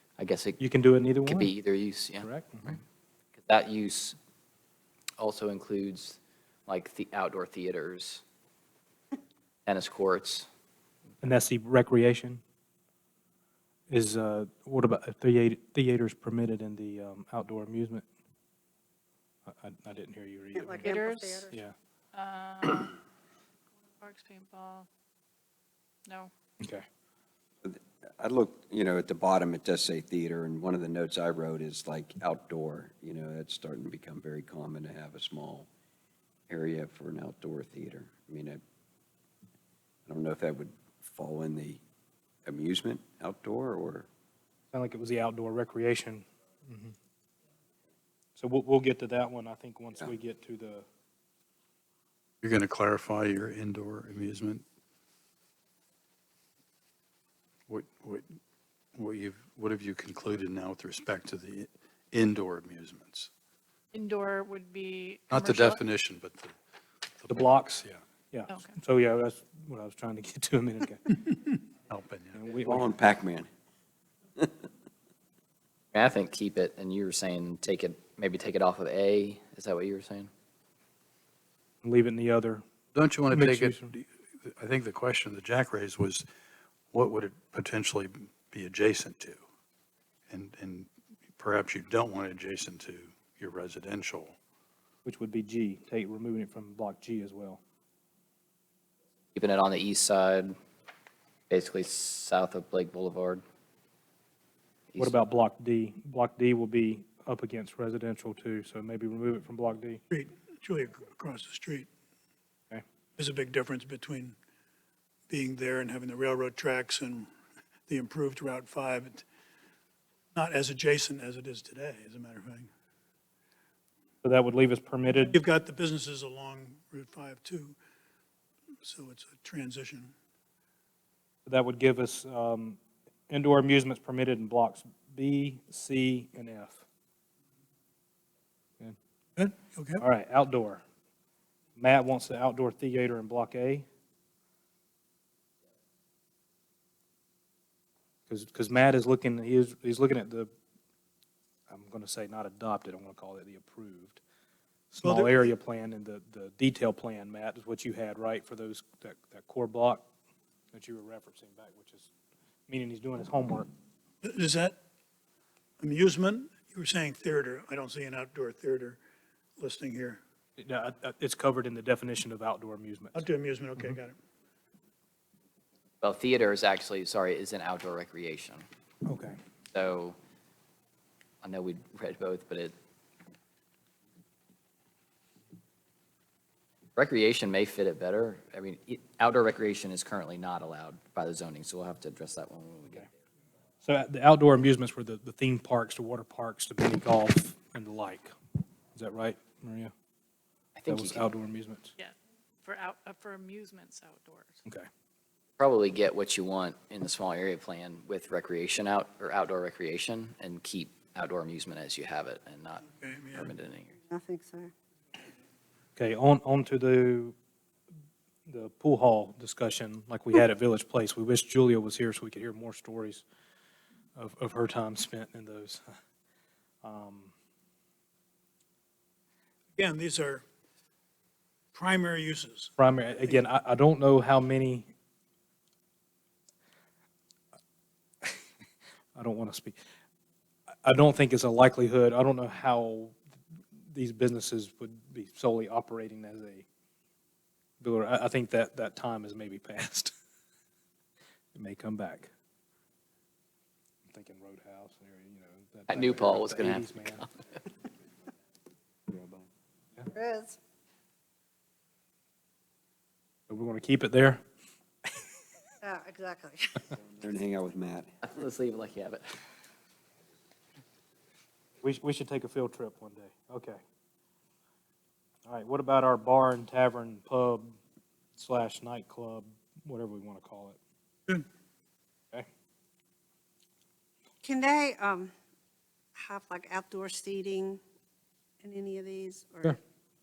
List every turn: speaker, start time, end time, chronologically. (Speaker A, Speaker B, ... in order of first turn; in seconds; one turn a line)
Speaker A: 0.2-0.6
Speaker B: 0.6-1.5
Speaker A: 1.2-2.8
Speaker B: 2.1-2.8
Speaker A: 3.4-4.2
Speaker A: 5.2-8.2
Speaker A: 9.7-10.5
Speaker B: 11.2-12.4
Speaker B: 13.9-18.1
Speaker B: 19.5-20.9
Speaker C: 20.6-21.6
Speaker D: 20.8-21.4
Speaker B: 21.5-21.7
Speaker D: 22.1-23.0
Speaker D: 24.0-24.9
Speaker B: 26.6-26.8
Speaker E: 27.6-35.7
Speaker E: 36.5-38.6
Speaker E: 40.1-41.8
Speaker E: 42.5-44.1
Speaker B: 44.7-46.9
Speaker B: 48.4-50.8
Speaker F: 52.4-54.6
Speaker F: 57.7-58.2
Speaker F: 59.0-63.3
Speaker D: 63.9-65.8
Speaker F: 65.3-66.5
Speaker F: 67.2-68.0
Speaker B: 67.3-71.2
Speaker F: 71.9-72.4
Speaker B: 72.3-72.9
Speaker E: 72.6-73.5
Speaker A: 75.9-80.3
Speaker B: 81.8-82.6
Speaker F: 82.9-86.2
Speaker B: 83.3-83.9
Speaker F: 86.9-89.4
Speaker F: 90.3-94.4
Speaker B: 95.0-97.6
Speaker A: 99.3-100.6
Speaker A: 101.5-103.4
Speaker A: 104.9-105.2
Speaker B: 105.0-110.0
Speaker G: 110.1-111.9
Speaker G: 113.2-114.3
Speaker G: 115.3-117.3
Speaker G: 117.9-119.2
Speaker G: 120.3-122.7
Speaker B: 124.2-125.4
Speaker G: 125.3-127.8
Speaker G: 128.8-130.1
Speaker B: 131.4-132.8
Speaker B: 133.3-136.8
Speaker G: 139.3-140.0
Speaker B: 140.0-140.8
Speaker B: 141.8-143.8
Speaker B: 148.3-150.5
Speaker B: 151.7-154.2
Speaker B: 154.9-160.1
Speaker G: 155.0-155.4
Speaker B: 160.7-162.1
Speaker B: 162.7-163.7
Speaker G: 164.2-164.8
Speaker G: 165.8-169.0
Speaker G: 169.6-170.2
Speaker B: 170.6-173.3
Speaker G: 173.1-174.2
Speaker A: 176.0-178.7
Speaker B: 179.1-179.4
Speaker A: 179.7-180.2
Speaker A: 181.4-182.7
Speaker A: 186.9-193.1
Speaker B: 193.8-198.3
Speaker B: 198.9-199.9
Speaker A: 200.7-201.2
Speaker B: 200.9-201.9
Speaker D: 202.0-204.6
Speaker A: 205.6-214.0
Speaker G: 212.9-213.5
Speaker C: 214.1-214.7
Speaker B: 215.9-217.3
Speaker B: 218.5-223.2
Speaker B: 224.2-225.8
Speaker B: 226.8-227.3
Speaker G: 229.8-230.4
Speaker G: 231.7-232.7
Speaker B: 232.8-234.9
Speaker B: 239.1-239.8
Speaker B: 240.8-243.2
Speaker B: 243.8-246.7
Speaker B: 247.8-250.1
Speaker B: 251.5-252.3
Speaker B: 254.1-257.2
Speaker A: 255.9-257.3
Speaker C: 260.1-260.6
Speaker B: 263.5-264.4
Speaker C: 265.8-266.8
Speaker E: 267.0-268.1
Speaker A: 268.2-269.4
Speaker B: 271.8-273.8
Speaker B: 275.4-277.8
Speaker B: 278.4-280.8
Speaker C: 284.4-285.3
Speaker C: 286.1-287.8
Speaker C: 288.6-289.8